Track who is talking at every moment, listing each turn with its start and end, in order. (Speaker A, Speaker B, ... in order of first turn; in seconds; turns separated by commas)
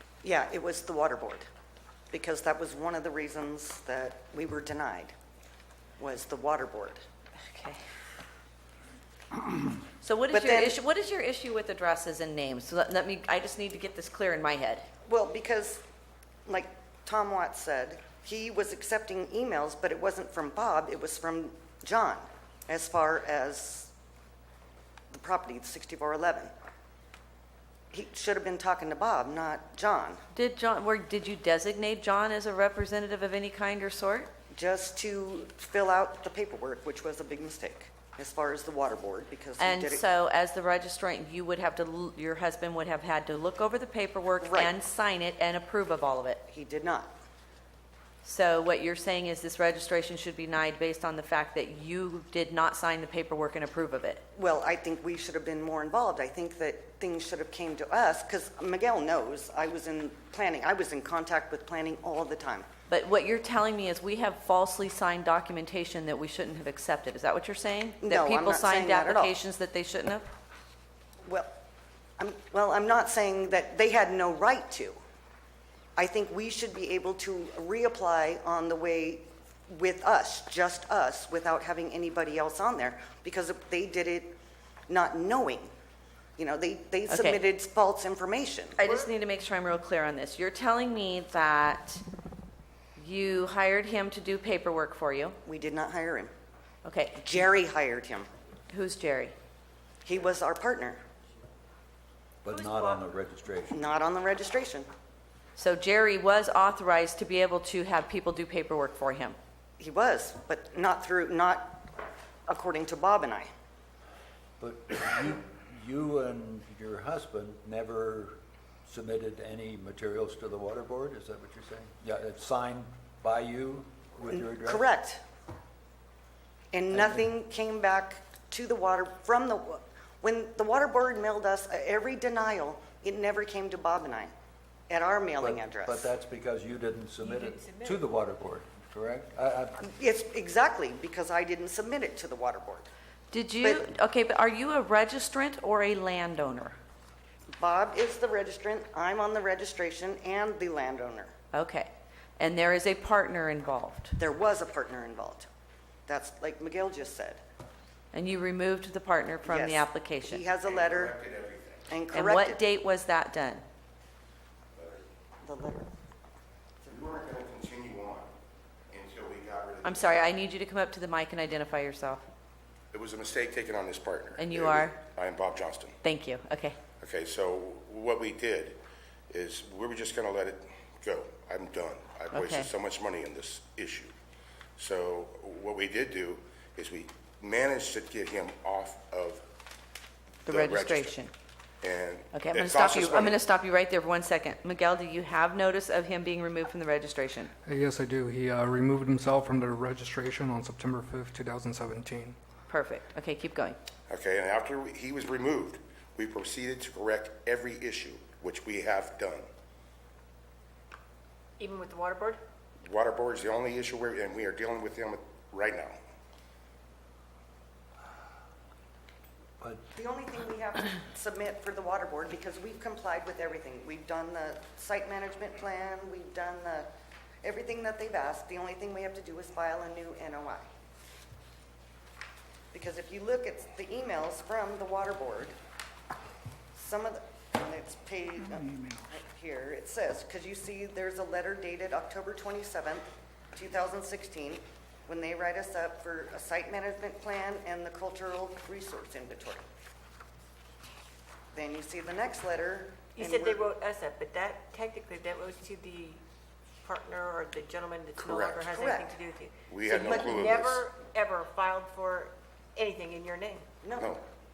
Speaker A: 0.2-1.5, Speaker A: 2.1-5.1, Speaker A: 6.0-7.0, Speaker B: 7.5-7.8, Speaker B: 10.0-14.9, Speaker A: 10.3-10.8, Speaker A: 15.1-15.8, Speaker A: 16.5-23.9, Speaker A: 25.1-26.5, Speaker A: 27.9-30.2, Speaker B: 30.3-34.3, Speaker A: 34.5-40.0, Speaker B: 39.6-46.4, Speaker A: 44.4-44.7, Speaker A: 46.5-47.1, Speaker B: 48.2-54.2, Speaker A: 54.4-62.7, Speaker B: 62.9-70.3, Speaker A: 68.0-69.3, Speaker A: 71.2-71.5, Speaker A: 72.2-75.0, Speaker A: 76.0-84.3, Speaker A: 84.9-85.7, Speaker A: 86.4-88.8, Speaker B: 87.1-87.4, Speaker B: 88.8-92.0, Speaker B: 93.0-95.4, Speaker A: 95.5-96.3, Speaker B: 96.8-97.2, Speaker A: 97.2-98.3, Speaker B: 98.7-99.3, Speaker A: 100.0-101.0, Speaker C: 102.4-103.8, Speaker D: 102.5-103.1, Speaker A: 103.7-104.9, Speaker B: 105.6-109.4, Speaker A: 109.8-111.8, Speaker A: 112.5-113.5, Speaker C: 114.6-124.8, Speaker A: 124.3-125.2, Speaker A: 126.7-134.3, Speaker C: 126.9-127.3, Speaker A: 134.9-136.1, Speaker C: 135.4-139.8, Speaker D: 137.2-138.0, Speaker A: 139.8-142.9, Speaker B: 143.3-146.8, Speaker A: 147.6-151.3, Speaker B: 151.5-154.2, Speaker A: 154.2-155.5, Speaker A: 156.1-157.4, Speaker B: 158.1-160.4, Speaker A: 159.4-161.1, Speaker E: 160.6-161.9, Speaker A: 161.9-162.6, Speaker B: 162.1-163.6, Speaker E: 164.8-165.1, Speaker A: 165.4-165.9, Speaker E: 166.9-168.3, Speaker E: 168.9-170.4, Speaker B: 169.8-172.2, Speaker E: 172.9-176.0, Speaker B: 174.4-175.0, Speaker B: 176.0-176.8, Speaker E: 177.0-178.8, Speaker E: 179.3-184.1, Speaker B: 182.3-182.7, Speaker E: 184.8-189.4, Speaker E: 190.5-191.2, Speaker B: 190.5-191.3, Speaker E: 191.8-193.4, Speaker B: 192.3-197.5, Speaker F: 197.7-202.4, Speaker B: 202.7-203.8, Speaker E: 204.1-209.5, Speaker D: 211.6-212.4, Speaker E: 212.8-216.0, Speaker A: 220.0-226.9, Speaker A: 227.4-230.7, Speaker A: 232.7-235.6, Speaker A: 236.7-249.6, Speaker A: 251.5-253.7, Speaker D: 253.2-256.2, Speaker D: 256.8-263.6, Speaker E: 258.2-258.7, Speaker A: 258.7-259.1, Speaker E: 259.7-260.9, Speaker A: 263.8-264.2, Speaker E: 264.0-264.2